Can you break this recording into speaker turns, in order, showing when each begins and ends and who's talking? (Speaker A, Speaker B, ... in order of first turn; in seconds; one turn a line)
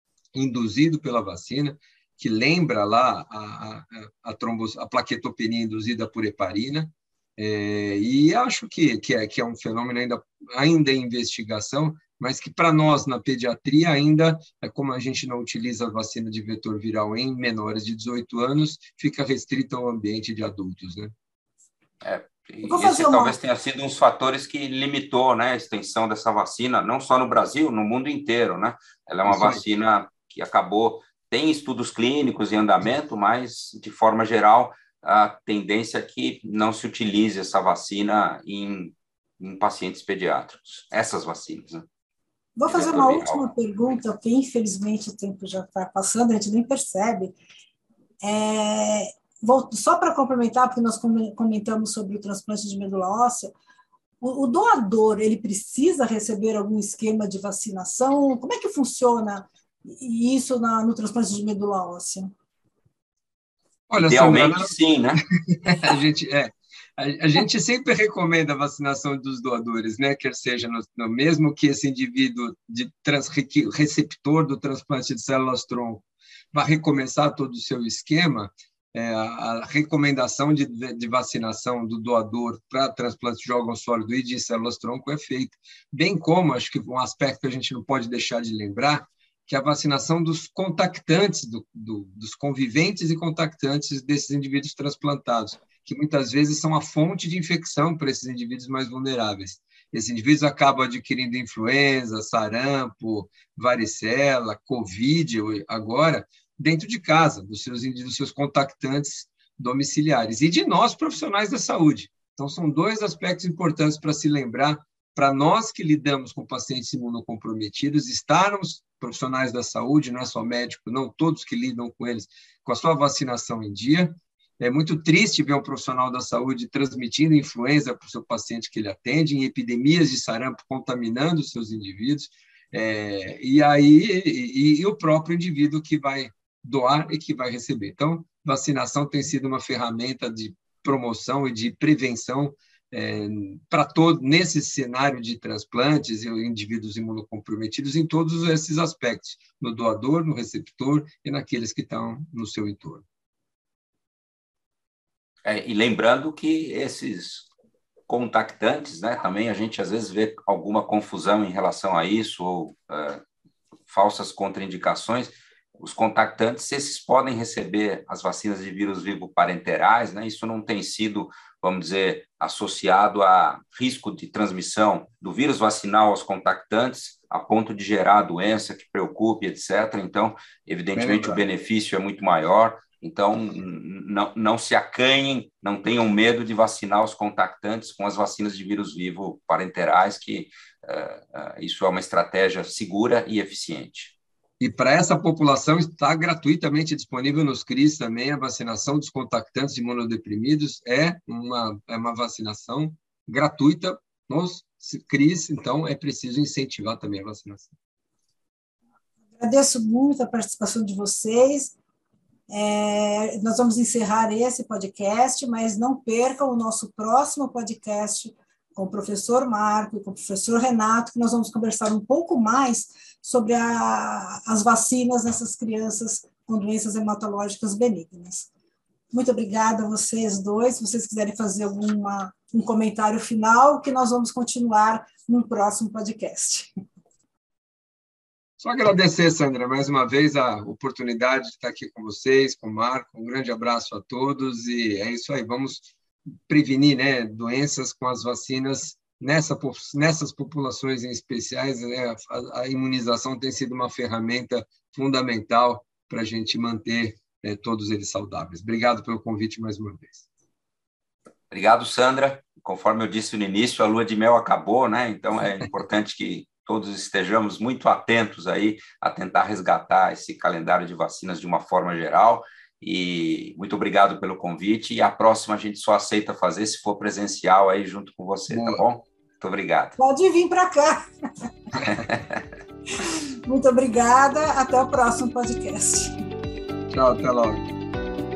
Speaker A: 0.3-21.1
Speaker B: 22.0-41.9
Speaker C: 22.6-23.4
Speaker A: 29.2-29.6
Speaker C: 42.6-47.3
Speaker B: 42.7-43.5
Speaker C: 48.2-53.5
Speaker C: 54.2-62.3
Speaker A: 63.9-64.7
Speaker B: 64.0-65.2
Speaker A: 65.5-153.0
Speaker B: 155.4-157.5
Speaker B: 158.1-163.2
Speaker B: 163.9-194.1
Speaker A: 180.9-181.4
Speaker A: 194.6-207.7
Speaker C: 209.4-211.7
Speaker C: 212.5-228.5
Speaker C: 229.1-236.7
Speaker A: 238.6-245.9
Speaker A: 246.5-260.2
Speaker B: 261.5-279.9
Speaker A: 278.5-278.8
Speaker C: 280.0-281.0
Speaker B: 281.9-282.4
Speaker C: 283.0-286.2
Speaker A: 286.9-287.7